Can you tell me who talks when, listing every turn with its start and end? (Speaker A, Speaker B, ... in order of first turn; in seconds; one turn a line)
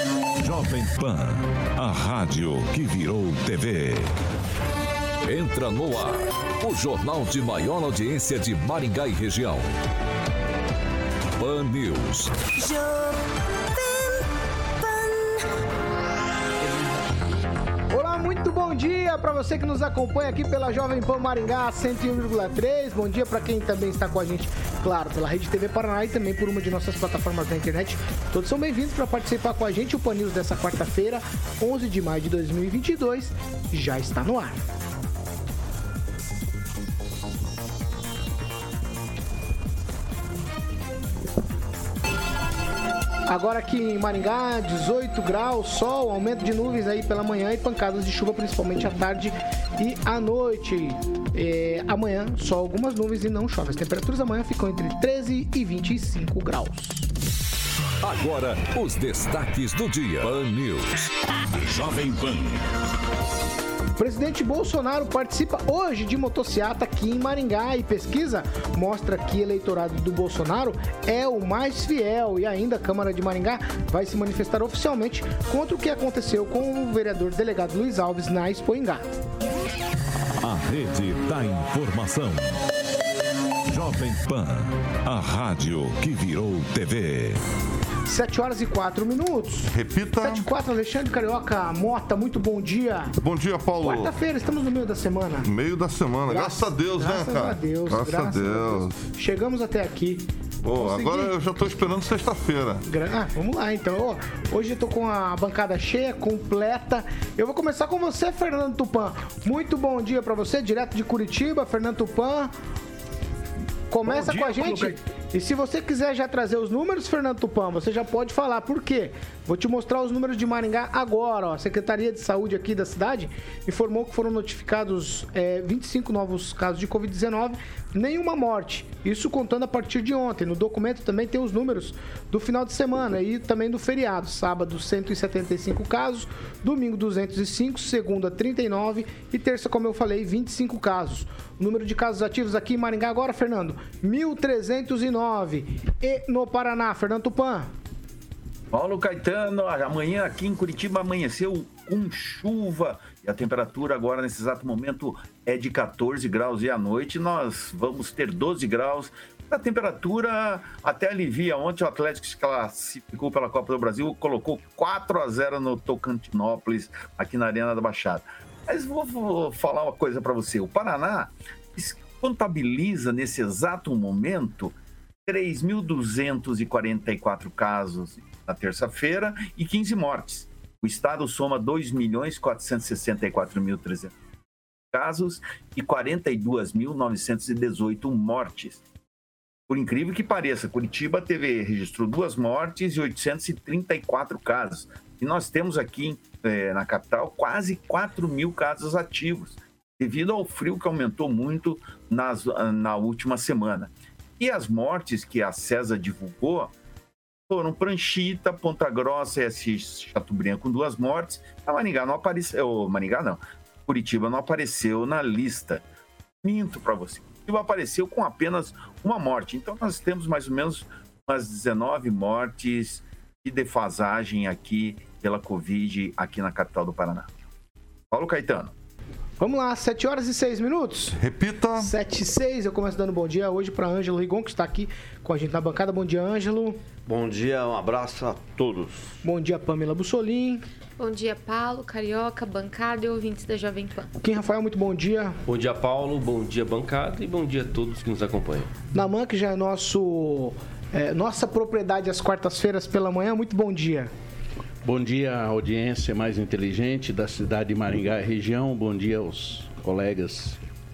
Speaker A: 0.4-4.1
Speaker A: 5.2-9.7
Speaker A: 11.4-12.4
Speaker B: 17.9-34.6
Speaker B: 43.3-57.1
Speaker A: 58.0-61.1
Speaker A: 61.8-62.5
Speaker B: 64.0-79.0
Speaker A: 80.4-82.5
Speaker A: 83.7-87.4
Speaker B: 88.1-93.2
Speaker C: 89.7-90.5
Speaker C: 93.2-94.1
Speaker B: 93.8-95.5
Speaker C: 95.4-99.0
Speaker B: 96.3-100.3
Speaker C: 100.6-102.8
Speaker B: 100.8-101.3
Speaker B: 102.9-112.5
Speaker B: 113.9-147.7
Speaker D: 114.0-115.0
Speaker D: 148.7-174.8
Speaker D: 175.3-184.1
Speaker D: 184.9-188.8
Speaker D: 189.7-206.7
Speaker D: 207.5-215.8
Speaker D: 216.4-227.3
Speaker D: 228.1-228.7
Speaker B: 229.4-231.2
Speaker C: 231.2-231.9
Speaker B: 231.8-236.8
Speaker E: 237.1-239.2
Speaker B: 239.2-240.7
Speaker F: 241.0-244.1
Speaker B: 244.2-245.4
Speaker G: 245.5-248.7
Speaker B: 248.9-254.1
Speaker H: 254.8-260.6